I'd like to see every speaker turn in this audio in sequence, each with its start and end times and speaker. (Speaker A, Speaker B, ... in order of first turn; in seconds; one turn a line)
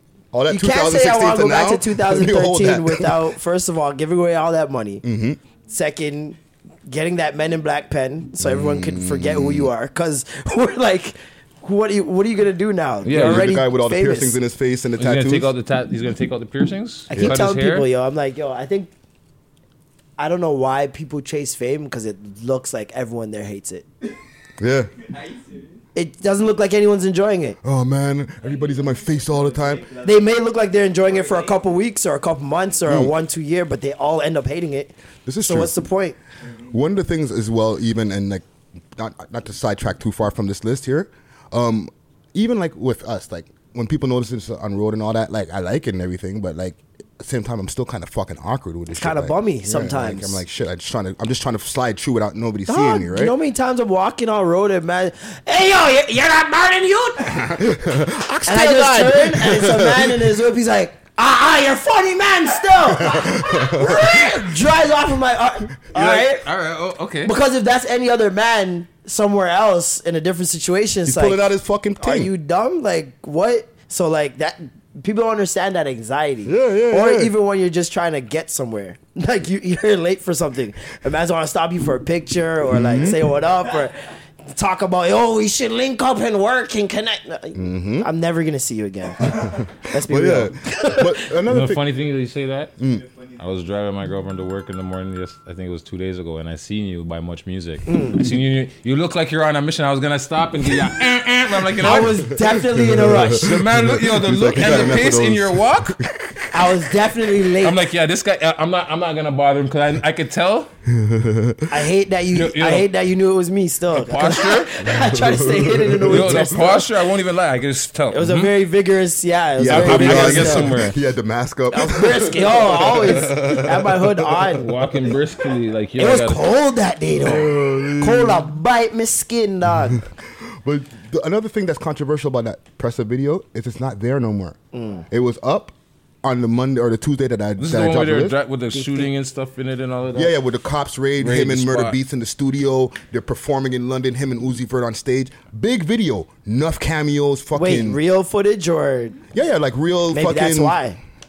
Speaker A: 0.3-3.3
Speaker B: 0.5-5.0
Speaker A: 5.0-5.4
Speaker B: 5.7-14.4
Speaker A: 8.4-9.7
Speaker C: 13.0-13.5
Speaker A: 13.1-15.5
Speaker C: 15.0-17.9
Speaker B: 17.1-18.9
Speaker A: 17.1-17.4
Speaker B: 20.2-23.9
Speaker A: 24.6-24.9
Speaker B: 25.9-27.6
Speaker A: 27.6-29.9
Speaker B: 29.9-36.1
Speaker A: 32.8-33.1
Speaker A: 35.2-35.8
Speaker A: 36.7-53.3
Speaker B: 48.9-50.4
Speaker B: 52.7-57.5
Speaker A: 57.3-60.2
Speaker B: 58.5-66.4
Speaker A: 63.0-64.4
Speaker C: 65.9-67.3
Speaker B: 67.2-71.4
Speaker A: 71.0-72.3
Speaker B: 72.0-91.3
Speaker A: 76.4-77.3
Speaker A: 82.7-83.3
Speaker A: 87.5-88.1
Speaker A: 89.2-91.9
Speaker C: 91.5-92.7
Speaker A: 92.8-93.1
Speaker C: 93.4-102.3
Speaker B: 97.8-98.2
Speaker B: 101.8-103.6
Speaker A: 102.5-106.1
Speaker C: 103.2-106.0
Speaker B: 106.5-107.8
Speaker C: 107.6-110.7
Speaker A: 110.9-111.7
Speaker B: 111.7-116.7
Speaker C: 112.3-112.9
Speaker C: 113.9-114.7
Speaker A: 114.9-116.8
Speaker C: 116.1-118.5
Speaker B: 118.1-120.8
Speaker A: 119.6-124.5
Speaker C: 119.7-121.0
Speaker B: 121.7-124.7
Speaker C: 124.5-126.5
Speaker B: 126.0-130.1
Speaker A: 127.2-128.5
Speaker A: 129.9-134.6
Speaker B: 134.7-135.0
Speaker A: 135.1-138.4
Speaker C: 137.6-140.4
Speaker B: 138.7-139.1
Speaker A: 140.1-148.0
Speaker C: 141.2-142.0
Speaker B: 147.5-149.2
Speaker A: 149.3-150.8
Speaker B: 150.1-151.0